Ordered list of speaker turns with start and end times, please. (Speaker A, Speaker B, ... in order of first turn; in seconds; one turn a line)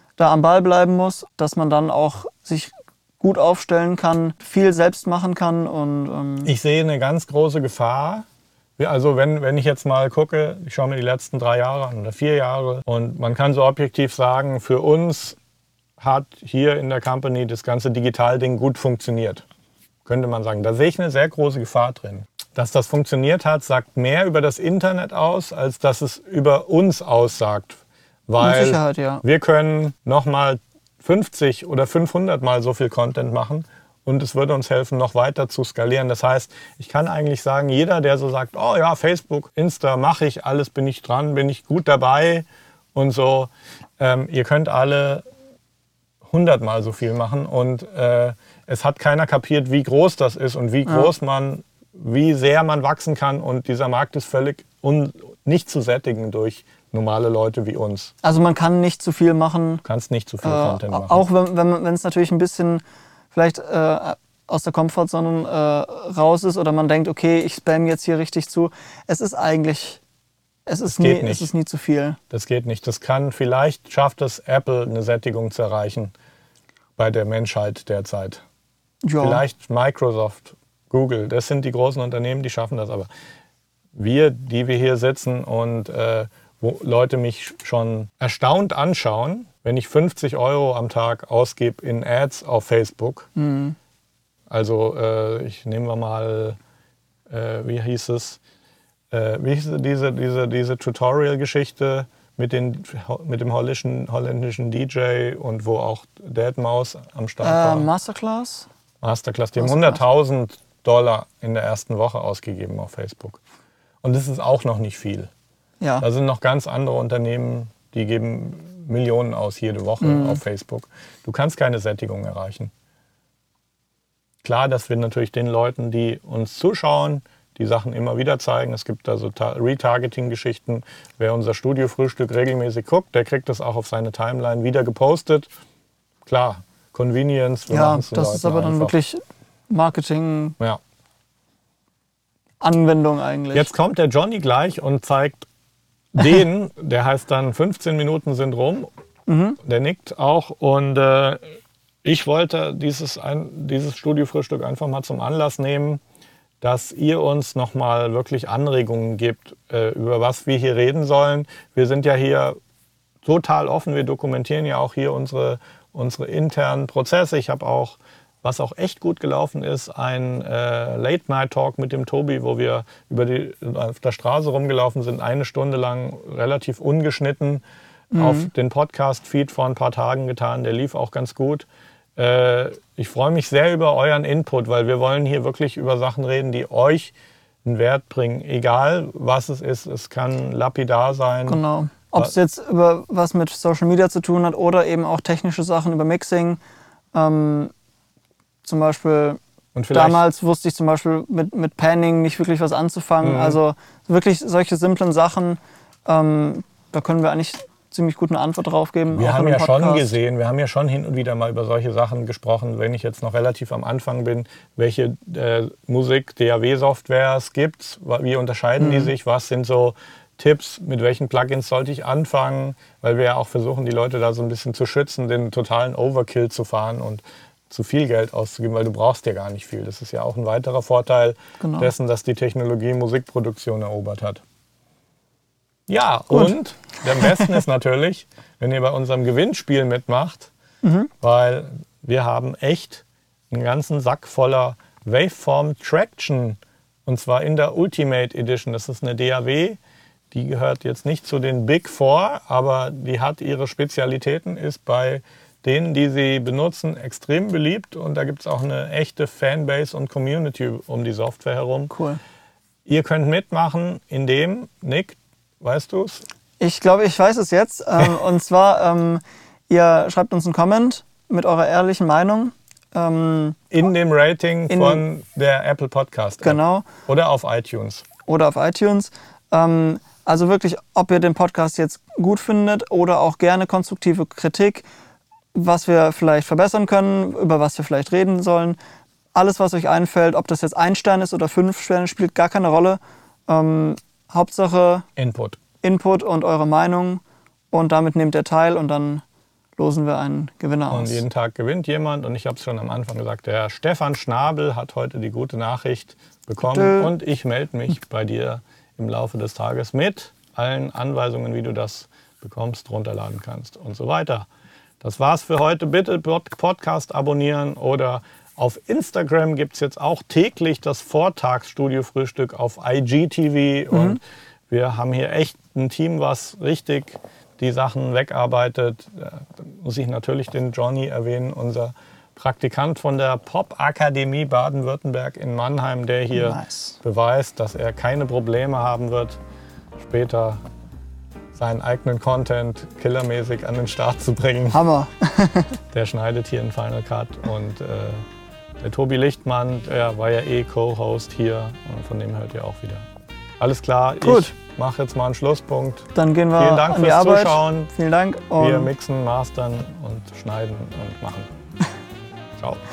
Speaker A: 0.2-6.5
Speaker B: 6.4-8.3
Speaker B: 8.8-15.4
Speaker B: 16.0-19.4
Speaker B: 20.1-45.2
Speaker A: 28.4-29.2
Speaker B: 46.3-58.1
Speaker A: 50.9-51.1
Speaker A: 58.2-59.8
Speaker B: 59.9-61.2
Speaker A: 60.4-62.8
Speaker A: 63.3-70.0
Speaker A: 70.7-72.2
Speaker B: 70.9-71.5
Speaker B: 72.3-76.1
Speaker B: 77.0-78.4
Speaker A: 79.0-79.4
Speaker B: 79.2-83.1
Speaker B: 84.0-93.3
Speaker A: 93.4-93.8
Speaker B: 94.5-96.6
Speaker B: 97.3-98.4
Speaker B: 99.1-107.9
Speaker A: 107.4-108.7
Speaker B: 109.0-113.4
Speaker A: 109.6-110.0
Speaker B: 114.0-115.3
Speaker B: 116.0-122.7
Speaker A: 120.0-120.4
Speaker B: 124.4-135.5
Speaker B: 136.3-139.0
Speaker A: 137.7-140.6
Speaker A: 142.6-143.7
Speaker B: 143.5-145.5
Speaker B: 146.1-148.9
Speaker A: 149.3-149.6
Speaker B: 149.6-151.4
Speaker B: 152.0-156.0
Speaker B: 156.6-162.6
Speaker B: 163.2-177.6
Speaker A: 178.1-178.5
Speaker B: 178.1-187.1
Speaker B: 187.7-191.6
Speaker A: 191.5-196.6
Speaker A: 197.1-197.7
Speaker A: 198.6-199.4
Speaker B: 199.8-200.2
Speaker A: 199.9-210.2
Speaker B: 203.2-203.6
Speaker B: 209.1-234.4
Speaker A: 218.8-219.1
Speaker A: 231.6-231.9
Speaker B: 235.9-240.5
Speaker A: 237.1-237.5
Speaker A: 240.8-241.1
Speaker B: 241.2-249.8
Speaker B: 250.3-261.9
Speaker A: 261.9-262.2
Speaker B: 262.9-266.2
Speaker A: 266.6-273.6
Speaker B: 273.7-278.1
Speaker A: 274.7-275.0
Speaker A: 276.4-276.9
Speaker A: 278.3-284.9
Speaker A: 285.5-288.8
Speaker A: 289.3-295.1
Speaker B: 295.2-295.6
Speaker A: 295.8-299.2
Speaker A: 299.8-301.2
Speaker B: 300.9-314.5
Speaker A: 306.6-307.1
Speaker B: 315.0-339.4
Speaker A: 323.9-324.2
Speaker A: 336.3-337.0
Speaker B: 340.0-340.6
Speaker B: 341.6-344.8
Speaker A: 344.7-345.8
Speaker B: 345.9-348.2
Speaker B: 348.8-353.1
Speaker B: 353.6-357.9
Speaker A: 354.2-354.5
Speaker A: 356.1-358.9
Speaker B: 358.6-361.5
Speaker B: 362.6-362.8